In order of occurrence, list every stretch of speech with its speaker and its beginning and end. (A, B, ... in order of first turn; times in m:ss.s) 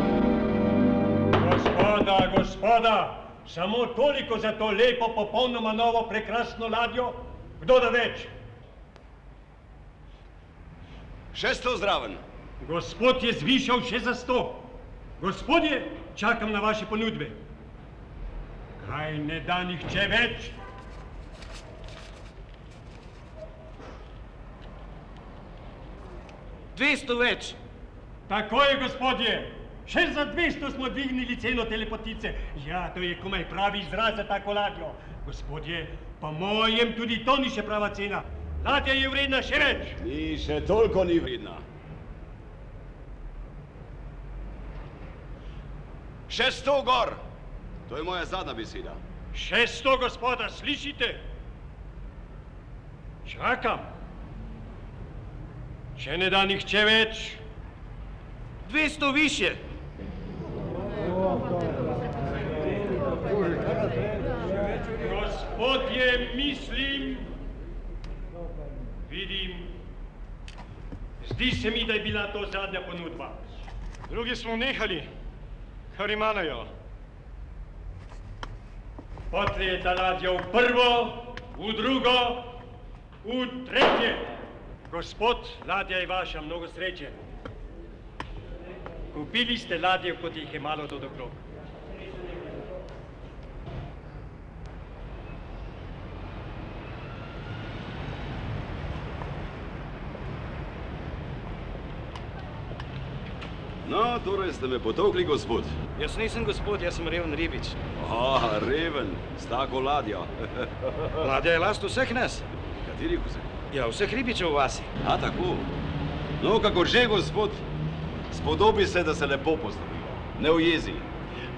0:01.3-0:08.3 A
0:11.3-0:12.2 B
0:12.6-0:17.4 A
0:18.8-0:20.6 A
0:26.7-0:27.6 C
0:28.3-0:40.0 A
0:40.0-0:41.6 B
0:46.3-0:47.2 B
0:47.9-0:49.0 B
0:49.3-0:51.3 A
0:53.2-0:53.9 A
0:56.0-0:57.4 A
0:58.6-0:59.6 C
1:04.9-1:07.4 A
1:09.0-1:09.8 A
1:11.2-1:15.1 A
1:15.9-1:16.7 A
1:19.3-1:22.6 A
1:23.2-1:24.4 A
1:24.9-1:27.2 A
1:29.1-1:31.4 A
1:43.8-1:45.8 B
1:46.0-1:47.8 C
1:47.9-1:51.3 B
1:51.2-1:52.4 C
1:52.7-1:53.5 B
1:53.7-1:54.9 C
1:55.0-1:55.7 B
1:56.4-1:57.6 B
1:58.3-2:01.1 B